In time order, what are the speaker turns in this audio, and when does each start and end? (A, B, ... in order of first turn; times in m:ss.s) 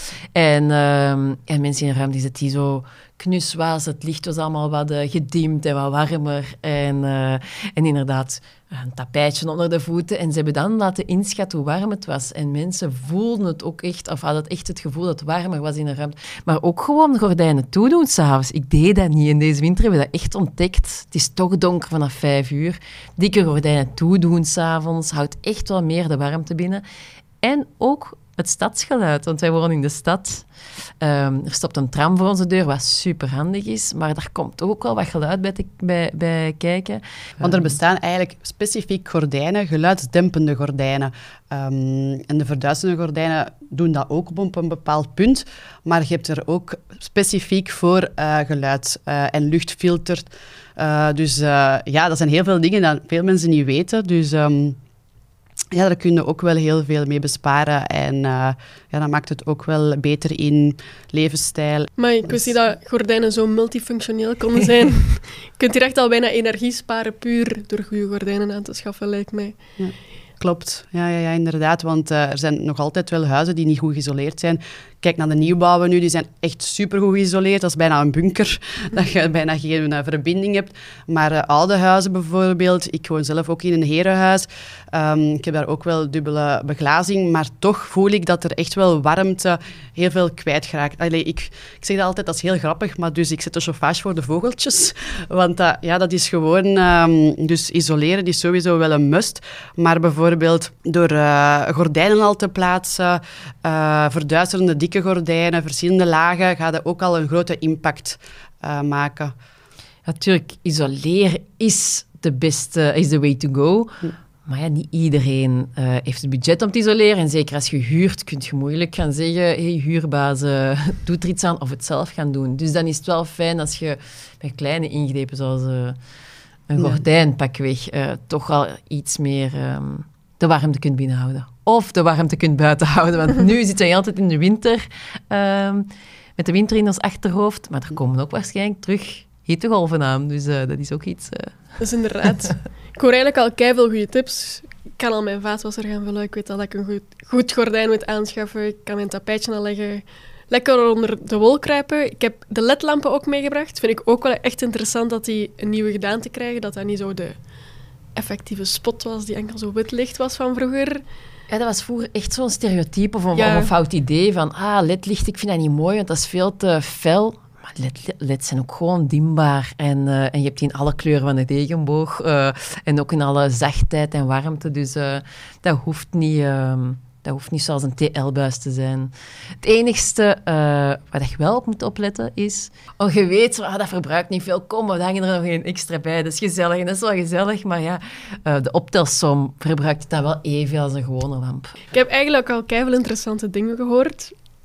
0:00.3-0:26.8 A
0:27.4-0:30.4 A
0:31.0-0:37.8 A
0:37.4-0:54.8 B
0:55.7-1:02.5 B
1:02.0-1:09.6 C
1:09.8-1:49.3 B
1:50.0-2:06.0 A
2:06.7-2:21.6 A
2:06.8-2:07.0 B
2:21.8-2:37.4 C
2:38.1-2:41.0 C
2:41.5-3:11.8 A
2:43.3-2:43.7 C
3:11.9-3:14.3 C